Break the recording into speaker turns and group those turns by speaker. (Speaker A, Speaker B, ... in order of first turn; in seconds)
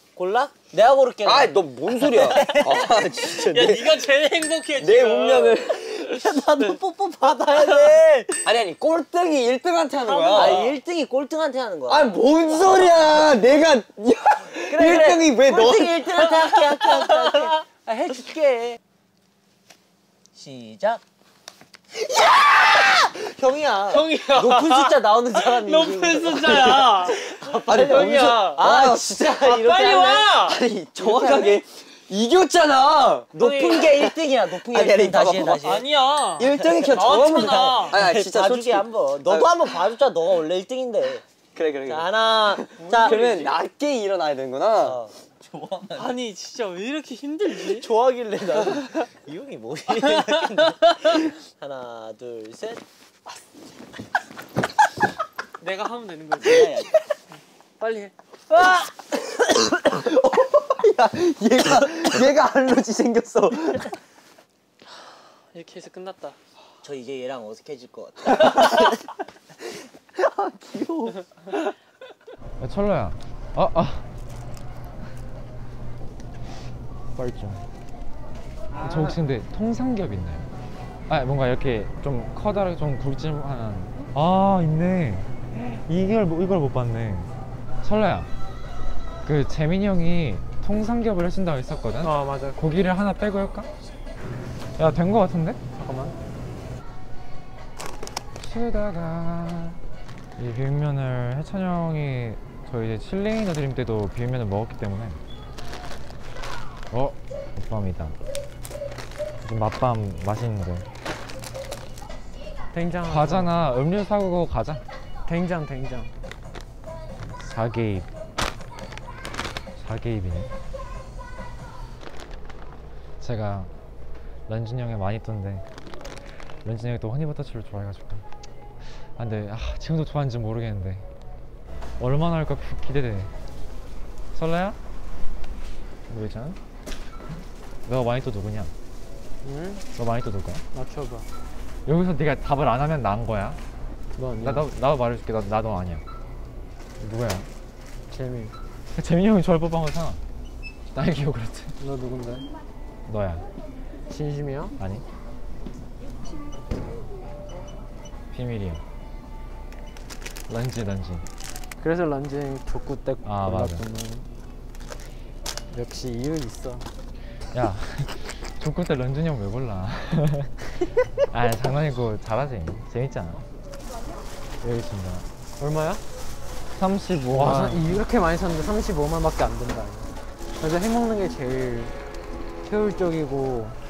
Speaker A: 0.1-3.3, 5.9-8.5, 10.3-13.3, 14.7-18.8, 20.3-21.0, 21.9-30.4, 31.0-31.6, 33.3-35.9, 36.7-41.2, 41.9-43.2, 44.8-46.2, 47.7-52.8, 56.4-56.9, 58.5-59.7, 66.8-69.0
Speaker B: 1.2-4.0, 4.8-6.2, 8.4-10.7, 11.9-16.1, 27.7-29.6, 30.3-33.3, 34.6-35.7, 36.4-39.7, 41.5-45.0, 59.6-63.9, 68.3-68.9, 70.1-71.7
Speaker C: 2.9-5.7, 7.5-8.0, 10.0-10.8, 16.5-17.5, 23.9-28.7, 29.4-30.6, 33.4-34.0, 35.4-38.0, 42.9-43.5, 45.9-47.9, 50.0-50.5, 55.6-56.9, 57.8-58.1, 65.5-66.4
Speaker D: 72.6-74.1, 77.1-77.6, 78.8-80.5, 81.1-88.3, 89.2-93.7, 94.8-95.6, 98.4-99.8, 100.4-105.2, 106.9-108.2, 109.4-110.9, 113.1-114.8, 117.4-118.1, 119.8-120.5, 123.2-123.7, 124.5-125.7, 126.6-128.2, 129.0-131.1, 132.0-133.3, 134.3-134.8, 136.1-136.6, 137.8-138.7, 139.9-140.6, 141.8-143.6, 144.4-146.0, 147.0-147.5, 148.9-150.2, 150.9-151.7, 153.1-153.4, 158.3-158.8, 160.5-161.3, 163.2-163.8, 167.5-170.6, 171.3-173.4, 174.6-175.3, 176.7-178.0
Speaker E: 92.0-92.6, 95.8-96.1, 112.7-113.5, 115.3-116.1, 139.4-139.9, 140.7-141.3, 144.2-144.7, 148.1-148.5, 151.8-152.5, 154.1-154.7, 161.8-164.3, 165.7-166.9, 175.6-176.0, 177.2-181.9, 182.7-183.8